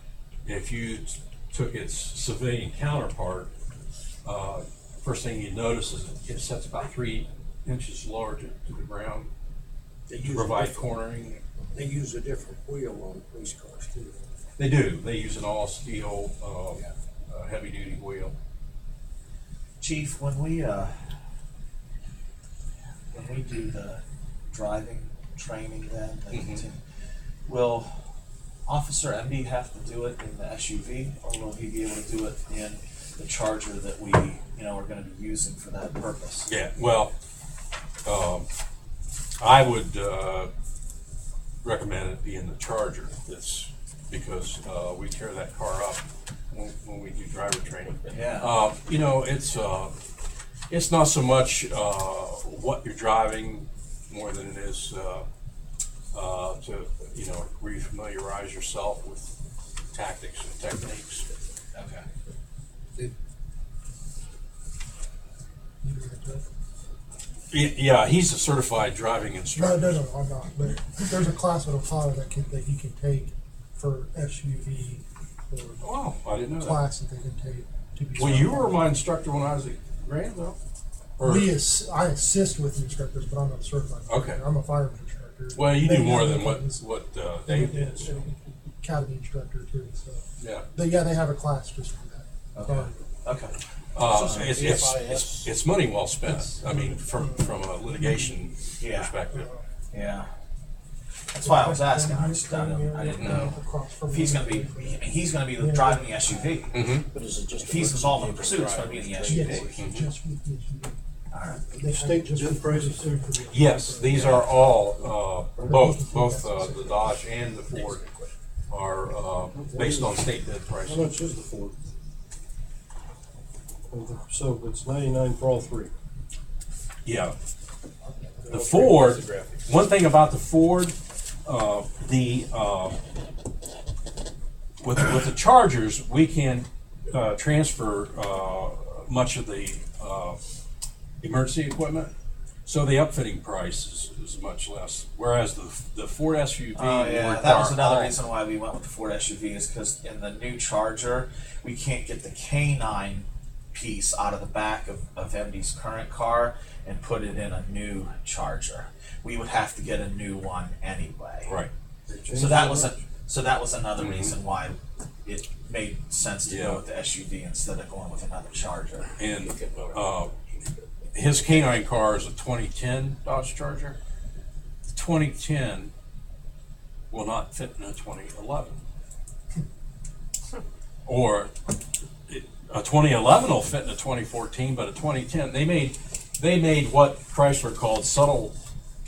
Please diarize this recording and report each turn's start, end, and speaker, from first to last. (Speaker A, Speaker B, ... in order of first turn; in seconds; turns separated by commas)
Speaker A: 0.4-3.5, Speaker A: 4.2-9.3, Speaker B: 10.1-10.8, Speaker A: 10.2-11.4, Speaker B: 11.7-14.1, Speaker A: 14.6-18.3, Speaker C: 19.8-20.9, Speaker C: 23.1-26.8, Speaker A: 26.3-26.6, Speaker C: 27.4-27.9, Speaker C: 28.7-36.5, Speaker A: 36.5-37.1, Speaker A: 38.0-38.5, Speaker A: 39.4-40.5, Speaker A: 41.6-49.9, Speaker C: 48.1-48.5, Speaker A: 50.7-55.3, Speaker A: 56.1-59.4, Speaker A: 59.9-61.3, Speaker C: 61.7-62.0, Speaker D: 65.8-66.4, Speaker A: 67.5-70.0, Speaker D: 69.5-75.8, Speaker A: 75.8-76.8, Speaker D: 76.6-79.0, Speaker A: 78.2-80.6, Speaker A: 81.2-81.6, Speaker D: 81.2-86.8, Speaker A: 84.1-84.4, Speaker A: 85.5-88.2, Speaker D: 87.5-92.9, Speaker A: 90.4-90.7, Speaker C: 92.5-93.5, Speaker A: 93.9-99.5, Speaker C: 94.1-94.7, Speaker B: 94.5-95.5, Speaker D: 96.5-98.4, Speaker C: 98.8-99.1, Speaker D: 99.3-99.6, Speaker C: 99.9-100.3, Speaker C: 101.3-103.6, Speaker D: 101.4-106.5, Speaker A: 103.2-103.5, Speaker C: 104.1-106.8, Speaker A: 106.7-107.0, Speaker B: 107.1-109.9, Speaker C: 107.6-109.7, Speaker D: 109.2-111.0, Speaker A: 109.8-110.1, Speaker C: 111.3-111.6, Speaker E: 111.7-113.2, Speaker D: 111.7-114.4, Speaker A: 113.5-121.1, Speaker C: 114.0-114.5, Speaker D: 115.6-117.2, Speaker E: 119.5-120.2, Speaker E: 120.8-121.8, Speaker E: 123.9-125.9, Speaker A: 127.0-127.3, Speaker A: 128.5-132.9, Speaker B: 128.5-129.3, Speaker A: 134.8-140.4, Speaker A: 141.2-142.1, Speaker A: 142.6-148.1, Speaker C: 146.7-161.5, Speaker A: 161.4-161.7, Speaker E: 162.1-162.9, Speaker C: 162.3-169.1, Speaker A: 164.0-164.3, Speaker A: 166.5-166.8, Speaker A: 169.2-170.3, Speaker A: 171.1-174.0, Speaker A: 174.9-175.9, Speaker A: 177.1-178.8, Speaker A: 181.0-181.5, Speaker A: 182.3-188.5